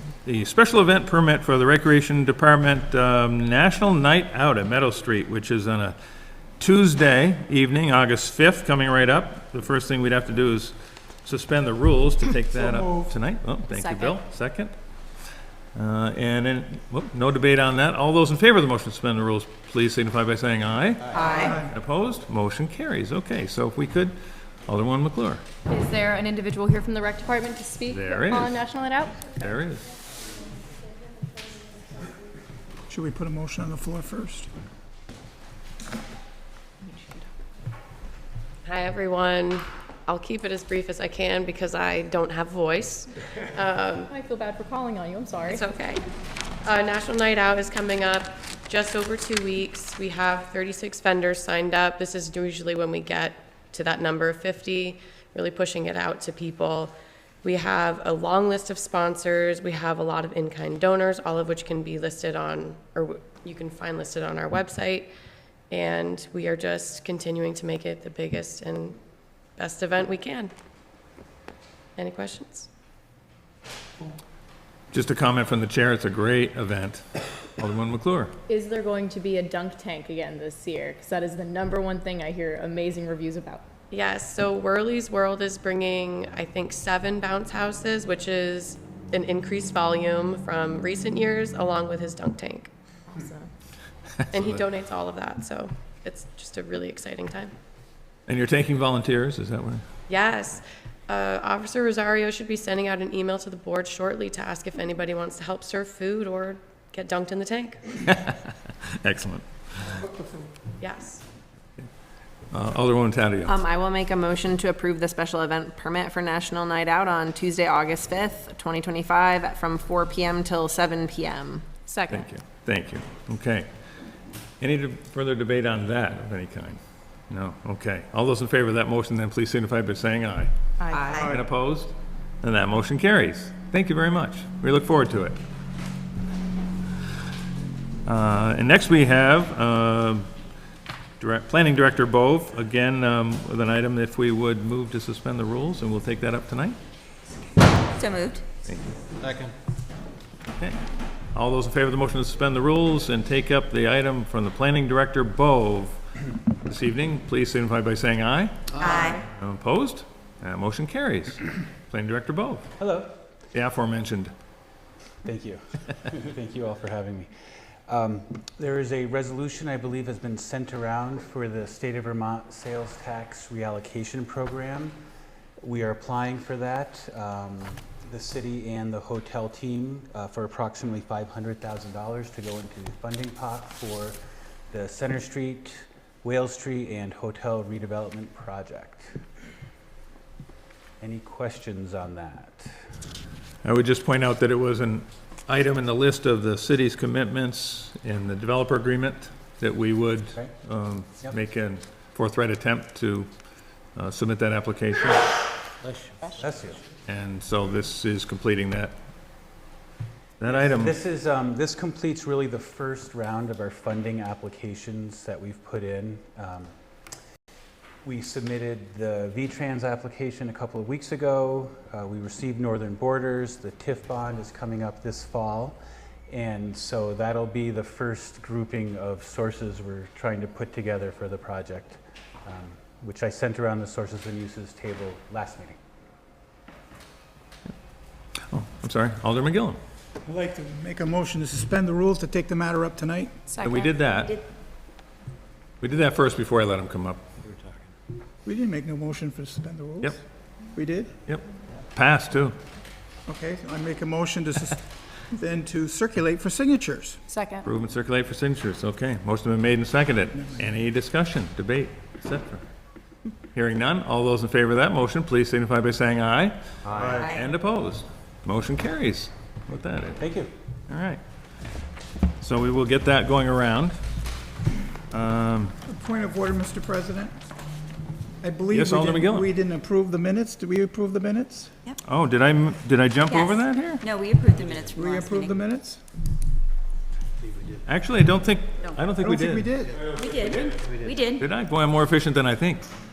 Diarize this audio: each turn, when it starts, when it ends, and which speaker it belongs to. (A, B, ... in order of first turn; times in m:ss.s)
0:00.2-0:06.0 A
0:06.6-0:14.7 A
0:12.5-0:13.1 B
0:13.7-0:14.2 C
0:15.8-0:24.1 A
0:21.1-0:21.5 D
0:21.4-0:21.7 B
0:24.7-0:25.4 A
0:25.7-0:29.5 C
0:27.9-0:28.6 A
0:29.3-0:29.8 A
0:32.9-0:34.5 B
0:36.9-0:37.2 C
0:38.6-0:44.1 E
0:44.1-0:45.6 C
0:45.5-0:46.0 E
0:46.6-1:05.1 E
1:05.7-1:09.0 E
1:09.6-1:10.5 E
1:12.0-1:12.7 E
1:14.9-1:17.0 A
1:17.6-1:18.3 A
1:18.5-1:23.6 C
1:23.9-1:32.7 E
1:33.1-1:33.5 C
1:34.3-1:37.5 E
1:38.3-1:39.8 A
1:40.1-1:47.8 E
1:48.1-1:49.4 A
1:50.8-1:51.2 E
1:52.5-1:53.6 A
1:53.5-2:01.8 F
2:01.8-2:02.3 C
2:02.1-2:03.7 A
2:04.6-2:10.5 A
2:10.8-2:11.2 C
2:11.0-2:11.3 D
2:11.1-2:15.4 A
2:18.0-2:20.3 A
2:21.2-2:26.8 A
2:27.9-2:28.4 D
2:31.3-2:36.0 A
2:36.6-2:38.6 A
2:38.8-2:39.2 D
2:39.3-2:42.7 A
2:42.8-2:43.1 G
2:43.5-2:44.3 A
2:45.2-2:47.3 G
2:47.9-2:55.0 G
2:55.6-3:04.2 G
3:04.7-3:09.2 G
3:11.0-3:12.7 G
3:13.6-3:23.3 A
3:24.0-3:25.2 A
3:26.3-3:26.8 G
3:27.1-3:29.0 A
3:30.4-3:30.9 A
3:30.4-3:36.7 G
3:38.0-3:55.8 G
3:58.5-3:59.8 A
4:00.2-4:03.4 B
4:03.6-4:04.4 A
4:04.2-4:04.4 D
4:05.8-4:07.2 A
4:08.4-4:10.2 B
4:10.7-4:11.1 B
4:11.3-4:12.6 A
4:13.3-4:17.2 B
4:17.3-4:17.7 C
4:17.6-4:22.7 A
4:23.5-4:26.6 A
4:26.8-4:27.3 G
4:27.2-4:30.2 A
4:30.2-4:30.5 G
4:30.9-4:31.2 A
4:32.4-4:34.0 A
4:35.1-4:35.7 A
4:35.8-4:37.3 B
4:38.4-4:41.7 B
4:38.7-4:39.5 A
4:42.0-4:44.0 A
4:43.2-4:45.5 D
4:44.9-4:46.0 B
4:47.8-4:49.7 A
4:49.2-4:50.1 B
4:50.1-4:51.4 D
4:51.4-4:52.9 A